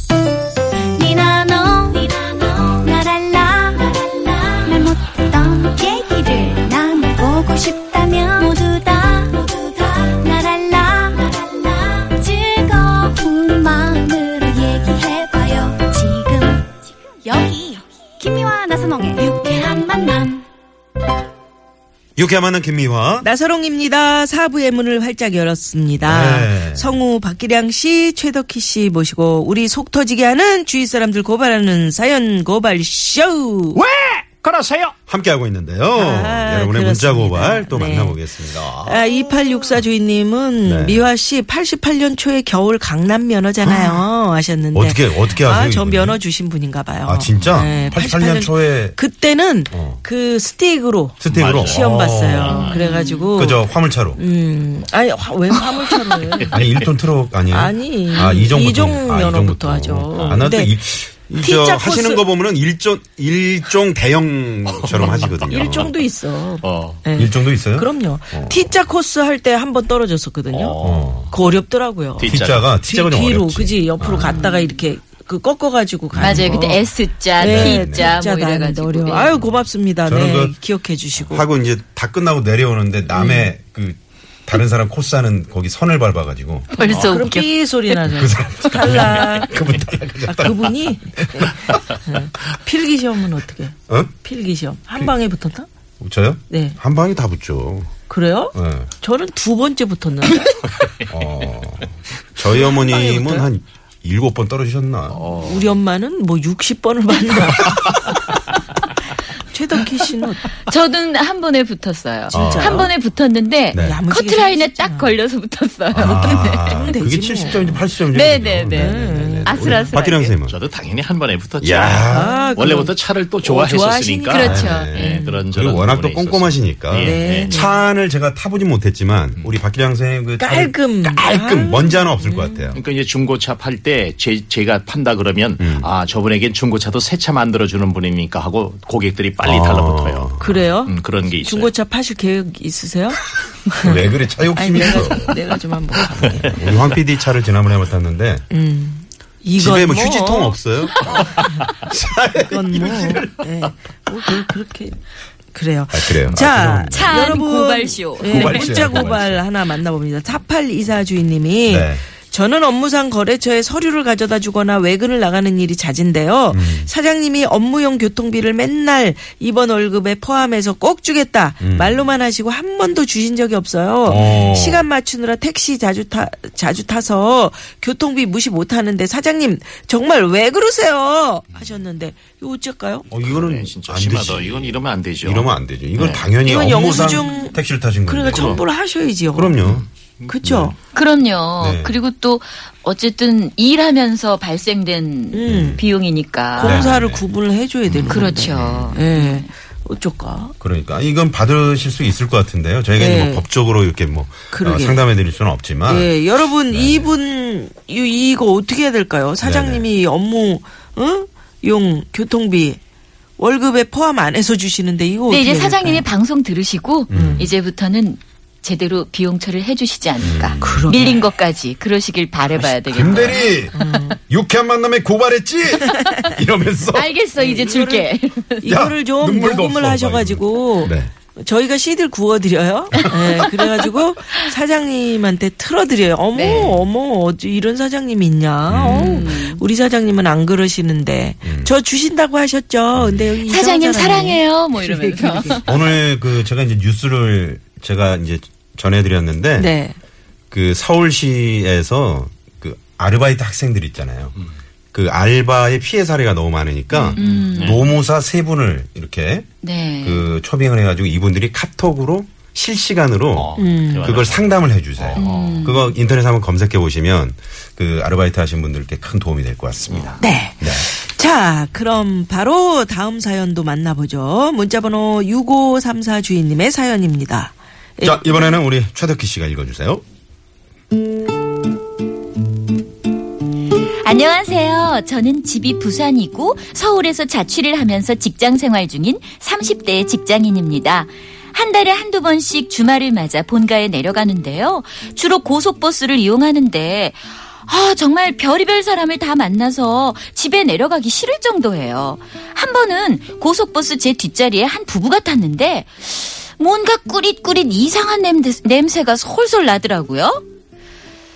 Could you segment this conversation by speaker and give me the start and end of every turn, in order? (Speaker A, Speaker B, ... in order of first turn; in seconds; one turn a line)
Speaker A: 1.0-16.7
Speaker A: 17.2-20.4
Speaker B: 22.2-23.3
Speaker C: 23.2-33.8
Speaker B: 26.0-27.0
Speaker D: 33.8-34.9
Speaker B: 35.1-39.8
Speaker C: 35.9-53.6
Speaker B: 40.6-41.1
Speaker B: 43.6-44.0
Speaker B: 44.7-46.2
Speaker B: 47.0-49.0
Speaker B: 49.7-50.0
Speaker B: 51.2-52.6
Speaker D: 51.3-52.8
Speaker E: 52.7-53.3
Speaker B: 53.3-54.2
Speaker C: 54.2-56.6
Speaker B: 56.5-65.9
Speaker C: 57.5-60.8
Speaker D: 60.1-60.5
Speaker C: 61.4-62.3
Speaker D: 64.7-66.0
Speaker C: 64.9-70.8
Speaker D: 66.6-67.1
Speaker B: 67.1-68.7
Speaker D: 70.5-71.3
Speaker B: 70.8-71.3
Speaker C: 71.3-76.8
Speaker D: 72.2-72.7
Speaker B: 72.2-74.5
Speaker B: 76.1-76.8
Speaker E: 76.2-79.4
Speaker C: 77.4-81.5
Speaker B: 77.4-78.2
Speaker B: 80.1-80.6
Speaker B: 81.2-86.7
Speaker C: 83.1-83.5
Speaker E: 86.7-87.5
Speaker C: 86.8-89.5
Speaker B: 88.0-91.8
Speaker C: 90.3-95.7
Speaker B: 96.0-97.9
Speaker C: 96.5-96.8
Speaker C: 98.1-100.5
Speaker B: 98.5-98.9
Speaker B: 101.1-105.2
Speaker C: 102.5-103.5
Speaker D: 105.1-105.8
Speaker C: 105.4-108.2
Speaker C: 109.2-110.5
Speaker E: 110.7-116.9
Speaker C: 112.3-112.9
Speaker B: 112.3-112.9
Speaker B: 113.7-114.0
Speaker C: 113.8-115.2
Speaker B: 115.9-120.6
Speaker C: 116.2-117.9
Speaker E: 118.1-120.3
Speaker C: 118.7-120.0
Speaker D: 120.5-127.6
Speaker B: 121.6-122.5
Speaker C: 122.0-124.7
Speaker E: 124.3-125.4
Speaker B: 124.4-132.8
Speaker C: 127.0-127.8
Speaker C: 130.4-132.7
Speaker D: 132.8-140.3
Speaker B: 135.6-135.9
Speaker B: 139.4-140.7
Speaker C: 140.4-146.8
Speaker D: 140.8-141.7
Speaker B: 143.8-145.3
Speaker B: 146.3-148.5
Speaker C: 148.5-150.6
Speaker B: 149.6-153.3
Speaker C: 152.5-155.0
Speaker C: 155.5-183.1
Speaker B: 155.9-157.4
Speaker E: 156.9-158.7
Speaker B: 158.2-159.4
Speaker B: 161.7-162.0
Speaker B: 166.5-166.9
Speaker B: 171.6-172.0
Speaker B: 174.1-174.9
Speaker B: 183.1-188.7
Speaker D: 183.1-186.3
Speaker C: 186.4-189.6
Speaker B: 189.3-189.8
Speaker D: 189.7-190.3
Speaker C: 190.3-190.7
Speaker B: 190.4-190.7
Speaker E: 190.9-196.9
Speaker B: 191.6-192.0
Speaker C: 195.3-195.8
Speaker B: 195.5-195.8
Speaker C: 196.6-200.6
Speaker B: 196.6-197.3
Speaker B: 197.9-199.0
Speaker E: 198.1-199.5
Speaker B: 200.6-206.1
Speaker C: 203.0-203.5
Speaker C: 204.5-205.1
Speaker C: 205.9-212.8
Speaker B: 206.7-207.1
Speaker B: 209.4-209.9
Speaker C: 213.4-216.1
Speaker E: 215.3-223.6
Speaker B: 217.1-217.5
Speaker C: 217.1-217.5
Speaker B: 220.2-220.9
Speaker C: 220.6-221.2
Speaker B: 222.7-227.1
Speaker C: 223.7-224.2
Speaker E: 225.9-226.2
Speaker E: 226.9-228.7
Speaker C: 227.4-228.1
Speaker C: 228.6-245.6
Speaker B: 228.7-231.1
Speaker E: 236.3-236.7
Speaker B: 236.5-236.9
Speaker B: 238.7-239.3
Speaker E: 238.8-239.6
Speaker B: 241.4-241.7
Speaker B: 242.9-243.3
Speaker E: 243.5-245.8
Speaker B: 245.7-249.7
Speaker C: 249.6-250.0
Speaker B: 250.5-254.3
Speaker B: 254.9-259.5
Speaker E: 256.9-257.8
Speaker D: 257.2-257.8
Speaker E: 259.6-260.3
Speaker B: 260.0-270.9
Speaker D: 263.3-265.7
Speaker C: 263.6-264.1
Speaker E: 265.2-266.0
Speaker C: 270.2-278.4
Speaker B: 278.0-280.0
Speaker E: 284.0-310.4